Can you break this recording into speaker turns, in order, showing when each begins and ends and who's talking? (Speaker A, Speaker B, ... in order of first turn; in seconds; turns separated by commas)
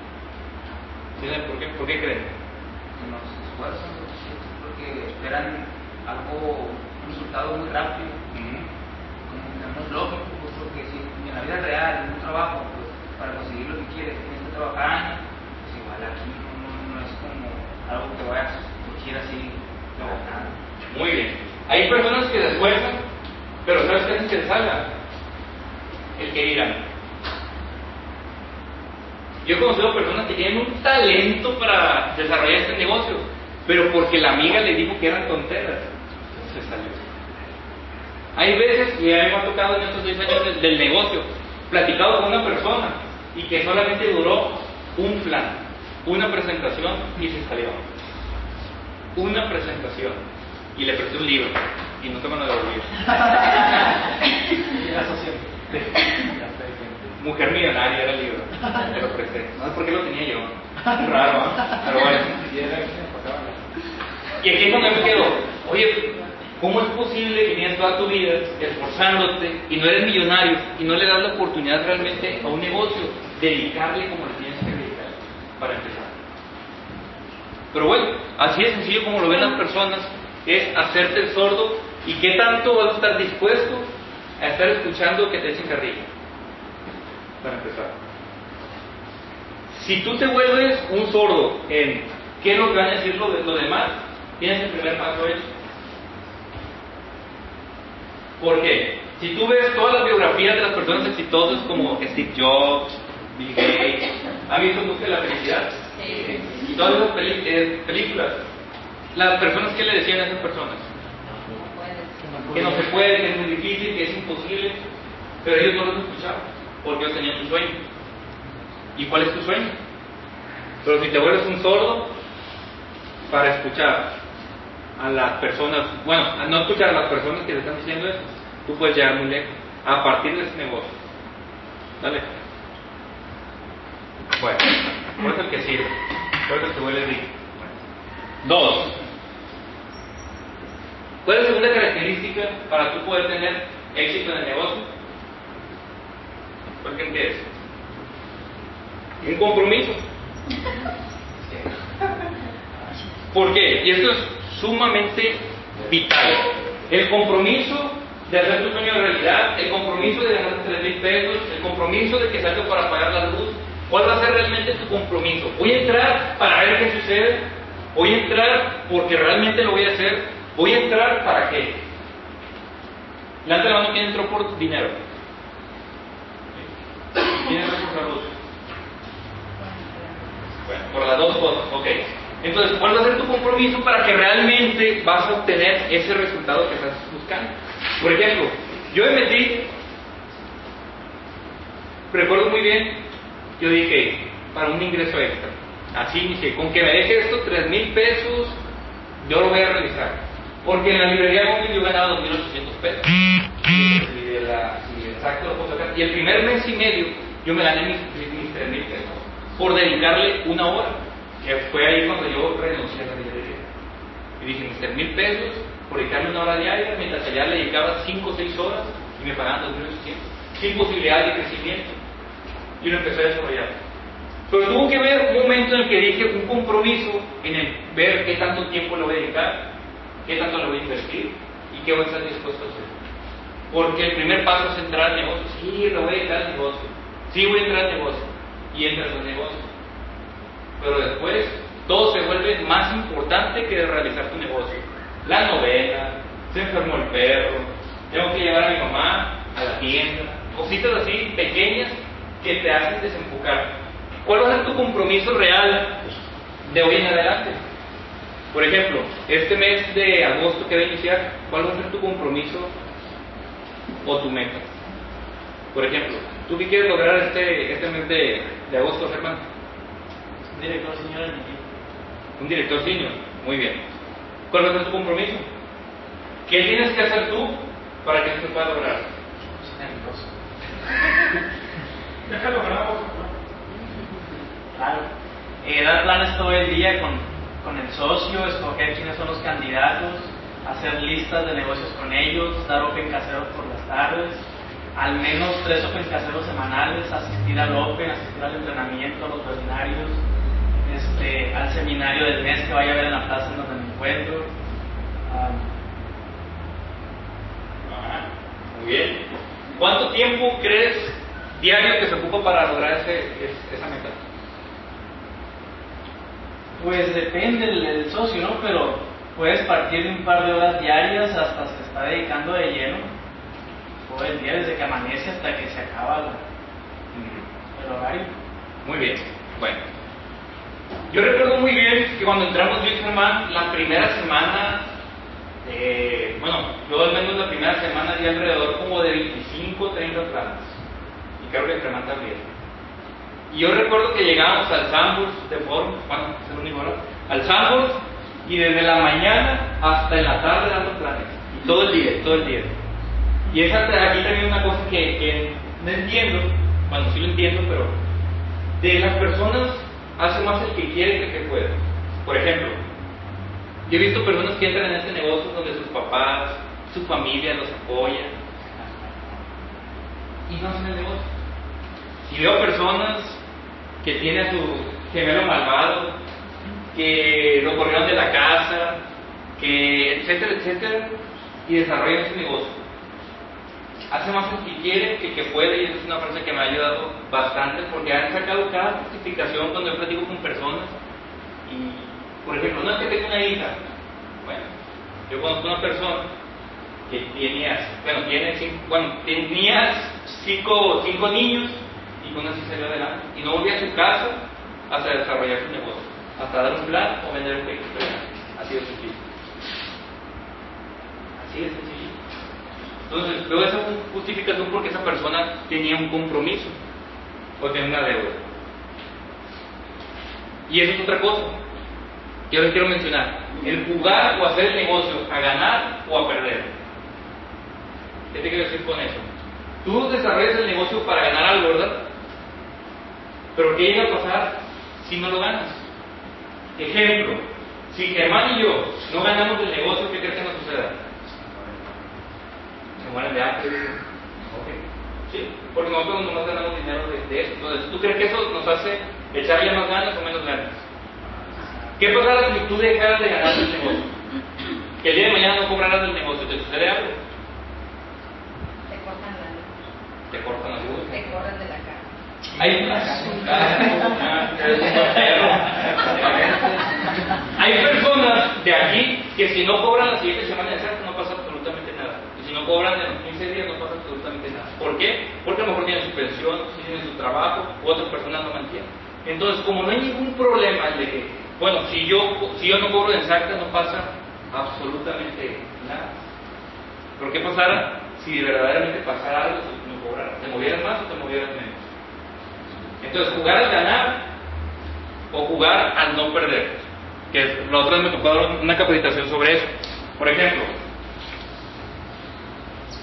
Speaker A: 1.2-2.3, Speaker B: 3.0-8.2, Speaker A: 8.3-8.7, Speaker B: 9.3-20.6, Speaker A: 20.9-23.0, Speaker A: 23.6-24.9, Speaker A: 26.1-26.8, Speaker A: 29.4-37.0, Speaker A: 38.3-47.9, Speaker A: 49.1-50.2, Speaker A: 50.7-53.9, Speaker C: 54.8-55.5, Speaker A: 57.2-63.5, Speaker A: 64.4-76.2, Speaker A: 77.7-86.1, Speaker A: 87.4-87.9, Speaker A: 89.7-95.5, Speaker A: 98.4-105.7, Speaker D: 105.9-106.7, Speaker A: 106.3-108.4, Speaker A: 109.1-110.8, Speaker D: 111.5-112.6, Speaker A: 112.5-114.8, Speaker A: 115.4-117.8, Speaker A: 118.9-119.8, Speaker A: 120.8-122.1, Speaker A: 123.3-124.1, Speaker A: 125.0-130.9, Speaker A: 132.0-132.4, Speaker A: 134.4-137.7, Speaker A: 138.4-138.9, Speaker A: 141.2-144.9, Speaker A: 146.8-147.5, Speaker A: 149.2-150.0, Speaker A: 153.3-171.8, Speaker A: 173.4-175.0, Speaker A: 176.5-178.3, Speaker D: 179.6-180.8, Speaker A: 180.7-189.7, Speaker A: 192.1-193.0, Speaker A: 193.6-198.6, Speaker A: 199.2-213.7, Speaker A: 214.4-222.0, Speaker A: 222.8-223.8, Speaker A: 224.5-229.7, Speaker A: 230.2-232.9, Speaker A: 233.7-239.7, Speaker A: 240.8-256.0, Speaker A: 256.6-257.6, Speaker A: 258.5-262.7, Speaker A: 264.0-264.7, Speaker A: 265.7-269.4, Speaker C: 270.5-271.6, Speaker A: 272.4-273.8, Speaker A: 274.5-275.5, Speaker A: 276.4-279.1, Speaker C: 279.6-280.3, Speaker C: 282.3-283.3, Speaker C: 284.7-285.1, Speaker C: 285.6-300.2, Speaker C: 300.8-304.5, Speaker C: 305.3-305.7, Speaker A: 307.8-309.2, Speaker A: 309.7-314.2, Speaker C: 316.8-323.1, Speaker C: 324.1-326.4, Speaker A: 327.1-327.5, Speaker C: 327.7-328.3, Speaker A: 328.8-329.8, Speaker A: 331.1-334.8, Speaker A: 335.6-340.8, Speaker A: 341.4-342.4, Speaker A: 343.5-352.7, Speaker A: 353.5-357.9, Speaker A: 358.8-362.8, Speaker A: 363.9-368.3, Speaker A: 370.5-371.2, Speaker A: 372.2-373.4, Speaker A: 374.0-376.1, Speaker A: 376.9-379.0, Speaker A: 379.6-381.1, Speaker A: 381.6-382.8, Speaker A: 384.1-390.9, Speaker A: 391.6-393.8, Speaker A: 394.4-394.7, Speaker A: 395.3-396.2, Speaker A: 397.1-409.2, Speaker A: 411.4-412.1, Speaker A: 413.1-416.8, Speaker A: 417.6-418.4, Speaker A: 420.7-421.6, Speaker A: 422.5-426.7, Speaker A: 428.3-429.3, Speaker A: 429.8-432.0, Speaker A: 433.5-435.8, Speaker A: 436.8-441.0, Speaker A: 443.0-450.8, Speaker A: 451.9-454.1, Speaker A: 455.0-457.1, Speaker D: 458.9-459.8, Speaker A: 460.3-461.2, Speaker D: 461.1-462.1, Speaker A: 462.6-466.7, Speaker A: 467.5-486.1, Speaker A: 487.2-491.8, Speaker A: 493.0-494.3, Speaker A: 495.3-500.7